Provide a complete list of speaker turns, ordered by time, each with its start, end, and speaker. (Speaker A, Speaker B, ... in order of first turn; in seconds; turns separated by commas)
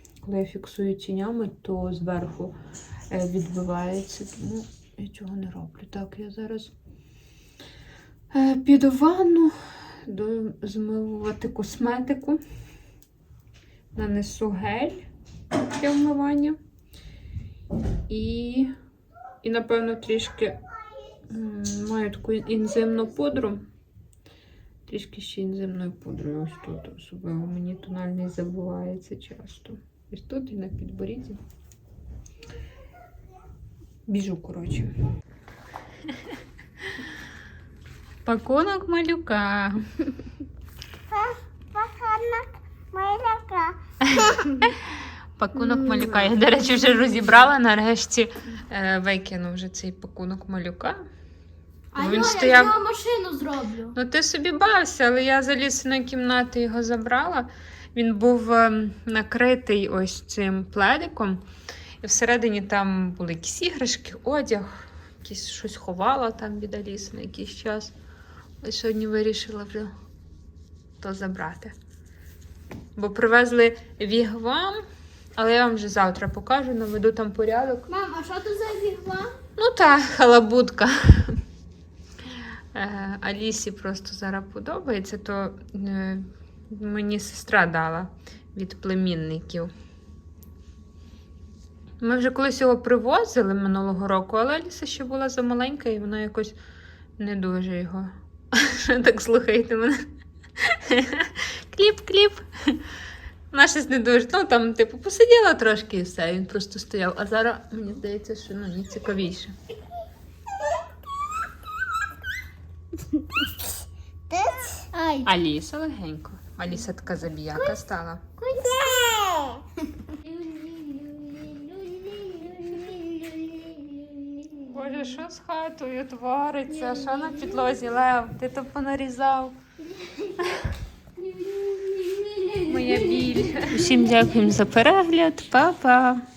Speaker A: 0.2-2.5, Speaker A: 3.1-6.7, Speaker A: 8.3-12.4, Speaker A: 13.9-15.1, Speaker A: 15.7-16.6, Speaker A: 18.1-18.7, Speaker A: 19.4-20.6, Speaker A: 21.3-23.6, Speaker A: 24.9-31.4, Speaker A: 34.1-34.9, Speaker A: 38.2-39.8, Speaker B: 41.1-44.5, Speaker A: 44.1-44.8, Speaker A: 45.4-51.0, Speaker C: 51.9-54.0, Speaker A: 52.0-52.8, Speaker A: 54.0-61.4, Speaker A: 62.0-67.9, Speaker A: 68.6-69.9, Speaker A: 71.0-71.7, Speaker A: 73.0-74.8, Speaker A: 75.4-77.9, Speaker C: 77.9-79.4, Speaker A: 79.5-81.4, Speaker A: 82.7-89.7, Speaker A: 92.0-96.6, Speaker A: 97.2-100.0, Speaker A: 100.6-102.8, Speaker A: 103.5-109.5, Speaker B: 114.3-115.0, Speaker A: 115.2-118.2, Speaker B: 118.4-119.6, Speaker C: 120.3-124.3, Speaker A: 124.7-129.6, Speaker C: 131.2-133.6, Speaker A: 132.6-136.2